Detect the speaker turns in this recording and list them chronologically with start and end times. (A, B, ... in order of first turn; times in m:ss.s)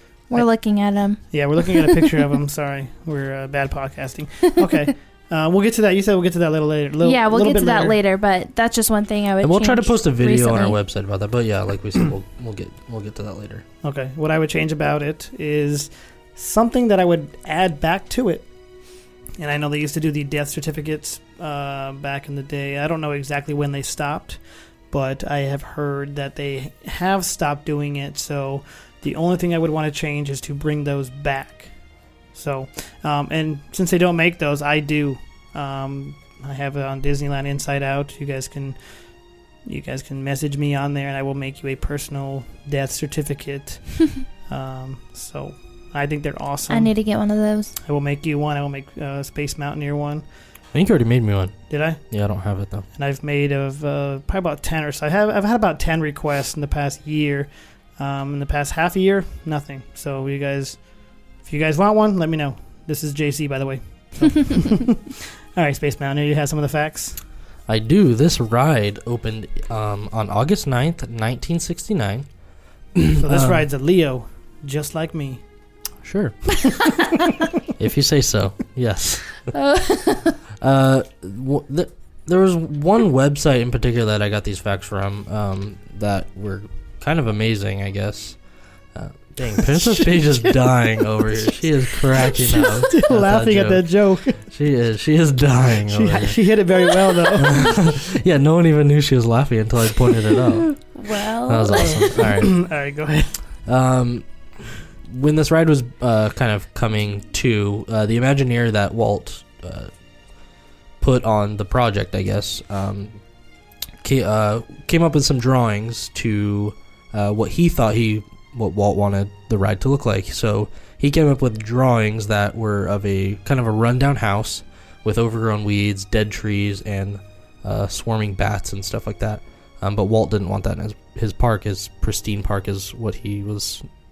0:00.3-0:02.1 A
0:01.3-0:08.0 B
0:07.0-0:10.8 A
0:09.4-0:13.6 C
0:13.8-0:18.5 B
0:19.4-0:24.4 B
0:24.9-0:31.7 B
0:32.3-0:38.8 B
0:39.7-0:46.9 B
0:46.7-0:47.8 A
0:47.8-0:50.2 B
0:50.7-0:52.9 C
0:51.7-0:52.0 B
0:53.0-1:00.8 B
1:01.4-1:07.2 B
1:07.7-1:12.3 C
1:13.0-1:13.6 C
1:13.2-1:15.4 B
1:16.0-1:16.7 C
1:17.8-1:19.5 C
1:19.5-1:20.4 A
1:20.6-1:28.4 C
1:28.9-1:33.9 C
1:29.6-1:30.9 B
1:32.2-1:34.4 B
1:34.4-1:36.4 C
1:35.9-1:37.9 B
1:37.4-1:40.8 C
1:40.8-1:42.1 A
1:41.5-1:42.7 C
1:41.9-1:43.4 B
1:43.7-1:49.9 C
1:51.0-1:53.2 C
1:54.0-2:13.8 C